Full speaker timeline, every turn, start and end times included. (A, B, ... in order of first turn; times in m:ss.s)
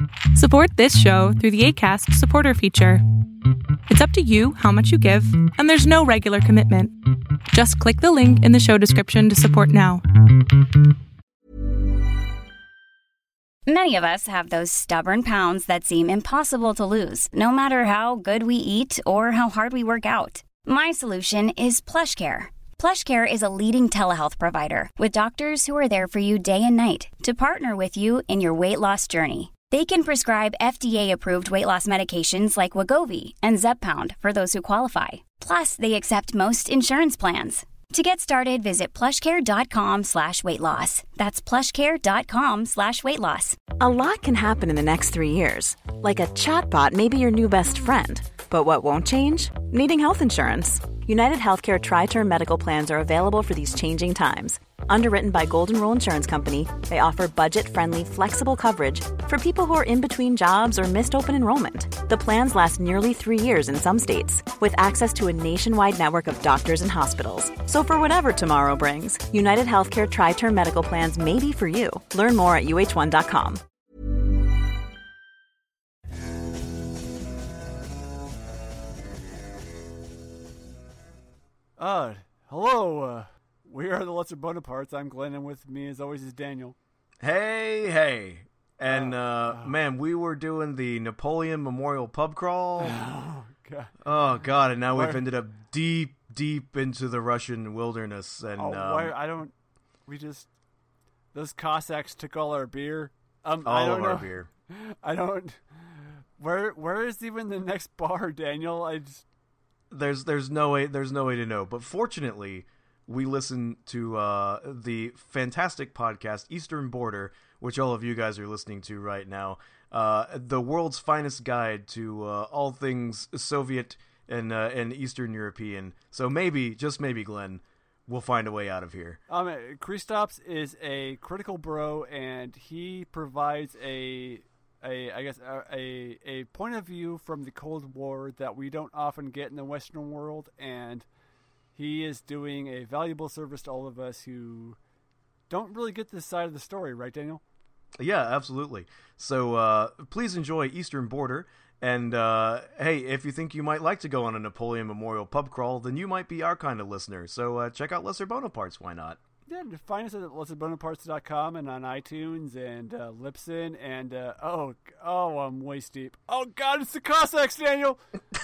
0:00.3-0:03.0 A
0:03.9-0:07.0 A
0:07.5-0:10.0 A
0:13.6-0:43.6 B
0:43.8-1:13.6 C
1:21.8-1:26.8 D
1:27.2-1:33.0 E
1:28.9-1:29.7 D
1:32.8-1:33.9 D
1:34.0-1:39.1 E
1:34.9-1:35.2 D
1:38.6-1:39.5 D
1:40.1-1:40.5 D
1:41.3-1:45.6 D
1:43.6-1:44.5 E
1:46.4-1:49.2 D
1:49.9-2:09.2 E
2:09.3-2:21.0 D
2:21.7-2:24.8 D
2:25.5-2:27.4 D
2:28.0-2:39.2 E
2:39.4-2:48.0 D